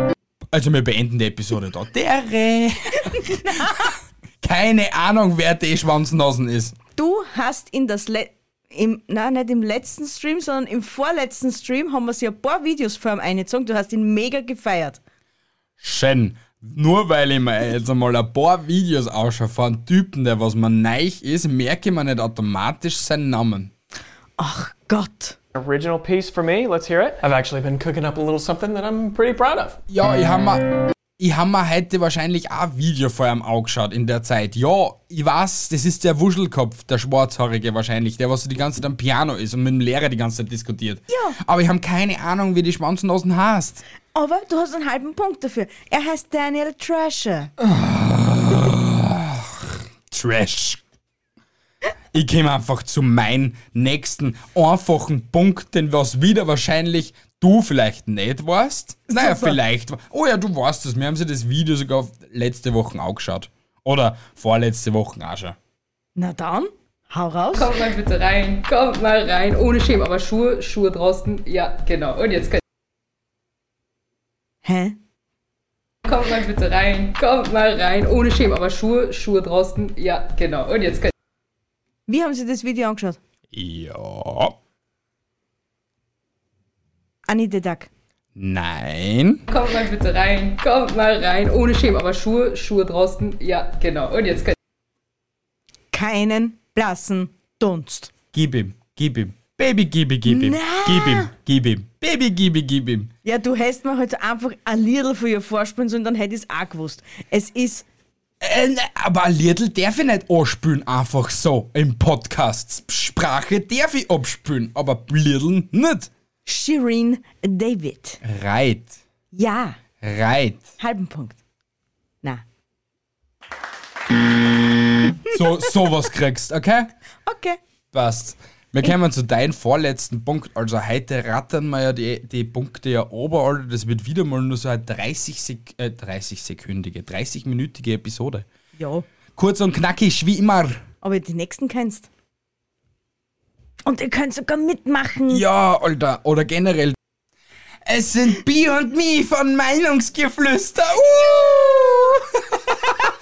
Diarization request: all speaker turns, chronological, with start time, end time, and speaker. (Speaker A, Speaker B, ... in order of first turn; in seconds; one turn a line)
Speaker A: 0.5-6.8
Speaker B: 3.0-3.9
Speaker B: 7.0-15.0
Speaker A: 15.8-23.7
Speaker B: 24.4-25.4
Speaker C: 25.5-29.8
Speaker A: 29.9-30.6
Speaker A: 31.2-43.8
Speaker B: 41.1-41.4
Speaker B: 44.1-47.5
Speaker A: 47.6-50.8
Speaker A: 52.1-65.5
Speaker B: 59.1-59.6
Speaker B: 66.2-67.7
Speaker D: 67.5-72.6
Speaker B: 74.6-75.0
Speaker D: 76.0-81.1
Speaker B: 82.1-83.2
Speaker A: 83.5-84.5
Speaker B: 87.3-87.9
Speaker A: 88.3-89.4
Speaker D: 89.5-94.5
Speaker B: 95.9-98.1
Speaker A: 98.3-103.1
Speaker B: 100.2-101.3
Speaker B: 103.2-107.8
Speaker A: 108.4-116.1
Speaker B: 116.5-118.2
Speaker A: 118.2-119.0
Speaker B: 119.3-119.8
Speaker A: 120.0-120.7
Speaker B: 120.8-121.4
Speaker A: 125.2-126.9
Speaker B: 127.2-127.6
Speaker A: 127.9-138.4
Speaker B: 138.8-139.1
Speaker A: 139.3-140.8
Speaker B: 141.0-142.1
Speaker B: 143.8-145.4
Speaker A: 145.3-146.9
Speaker A: 147.8-152.9